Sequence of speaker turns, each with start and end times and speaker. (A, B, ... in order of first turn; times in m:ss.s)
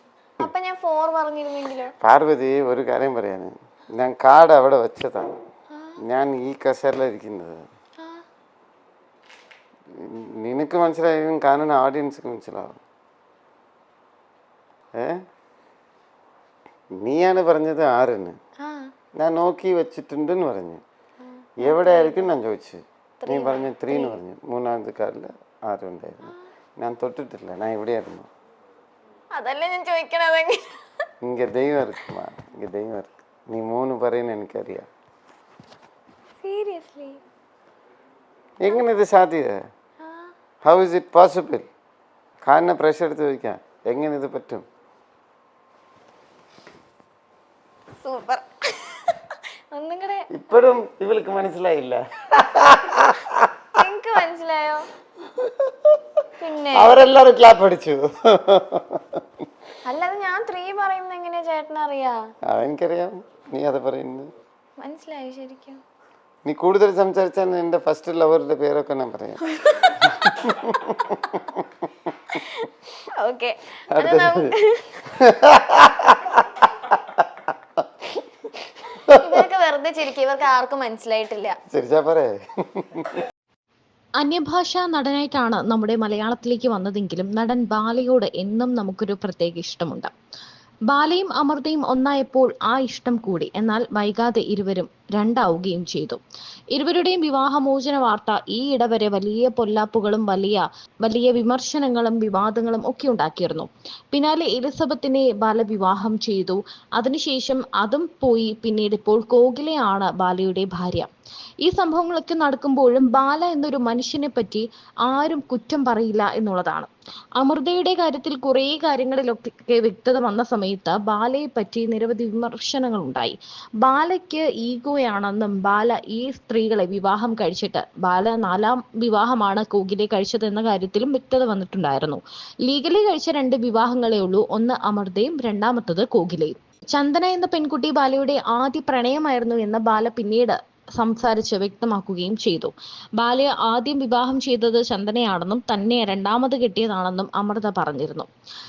0:00.4-0:01.9 A
0:02.0-0:05.3 B
0:05.7-0:06.0 A
0:06.0-0:07.6 B
0:08.0-0:08.2 A
0:10.0-0:12.8 B
0:17.0-0:18.4 B
0:18.6-0:18.9 A
0:19.2-0:20.8 B
0:21.2-0:22.3 A
0:21.6-0:28.3 B
0:23.2-0:24.2 A
0:29.3-0:30.8 A
0:31.2-0:34.9 B
0:36.4-0:37.2 A
0:38.6-0:39.6 B
0:40.0-0:40.3 A
0:40.6-0:41.7 B
0:42.4-0:44.6 B
0:48.0-0:50.3 A
0:50.3-0:53.5 B
0:53.8-0:54.9 A
0:55.4-0:56.0 B
0:56.4-0:57.0 A
0:56.7-0:59.2 B
0:59.9-1:02.2 A
1:02.5-1:04.3 B
1:04.8-1:05.8 A
1:06.4-1:12.4 B
1:09.5-1:10.4 A
1:12.3-1:15.2 A
1:13.9-1:14.5 B
1:15.0-1:19.4 B
1:19.1-1:21.6 A
1:21.7-1:23.2 B
1:24.2-1:30.1 C
1:30.9-1:36.2 C
1:36.7-1:51.1 C
1:51.6-2:28.3 C